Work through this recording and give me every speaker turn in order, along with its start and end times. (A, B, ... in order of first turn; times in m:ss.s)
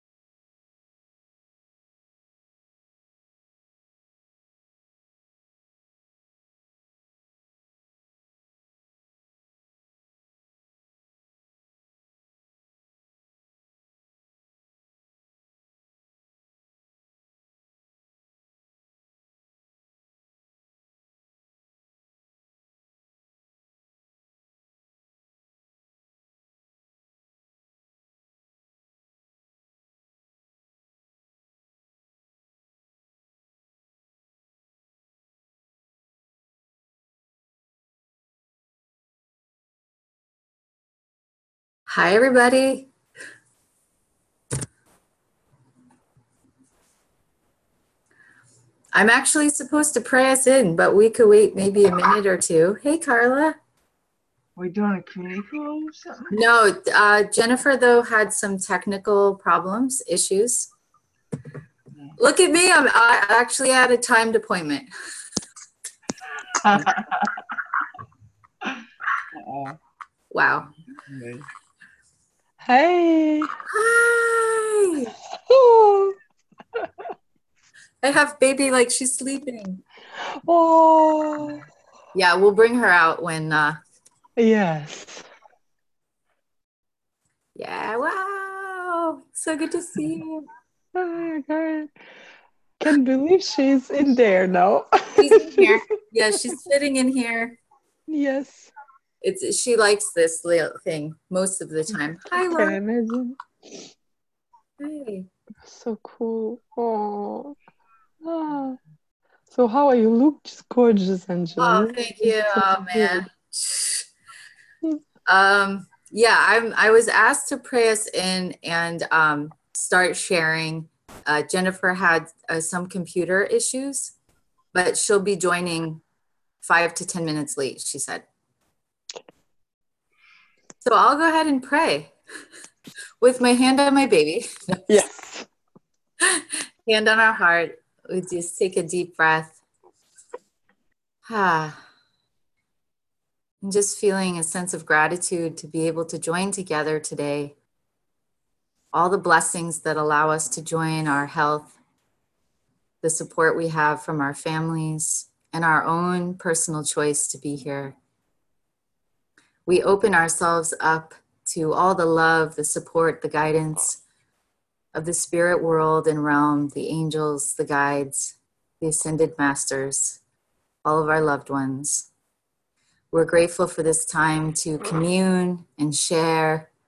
0:41.9-0:42.9 A
0:48.9-0:53.6 A
0:54.6-0:56.4 B
0:56.3-1:00.7 A
1:02.2-1:04.9 A
1:06.6-1:07.2 B
1:09.4-1:09.8 B
1:10.3-1:10.7 A
1:11.1-1:11.4 B
1:12.6-1:13.5 C
1:13.7-1:15.1 A
1:15.5-1:16.1 C
1:18.0-1:19.8 A
1:20.4-1:21.6 C
1:22.1-1:23.8 A
1:24.4-1:25.2 C
1:27.6-1:30.5 A
1:30.9-1:31.9 C
1:32.8-1:35.8 C
1:35.2-1:37.6 A
1:38.1-1:38.7 C
1:39.2-1:42.8 A
1:42.3-1:43.4 C
1:44.8-1:45.3 A
1:45.6-1:47.6 C
1:48.2-1:48.8 C
1:49.5-1:53.2 C
1:51.6-1:54.0 A
1:55.2-2:04.1 A
2:04.7-2:06.0 A
2:06.6-2:08.2 A
2:10.8-2:12.1 A
2:13.2-2:14.8 A
2:14.9-2:15.5 C
2:16.2-2:19.6 A
2:21.2-2:21.8 A
2:23.6-2:27.5 A
2:28.9-2:31.7 A
2:33.0-2:38.0 A
2:39.6-2:44.0 A
2:44.9-2:50.2 A
2:50.8-2:52.1 A
2:53.1-2:56.7 A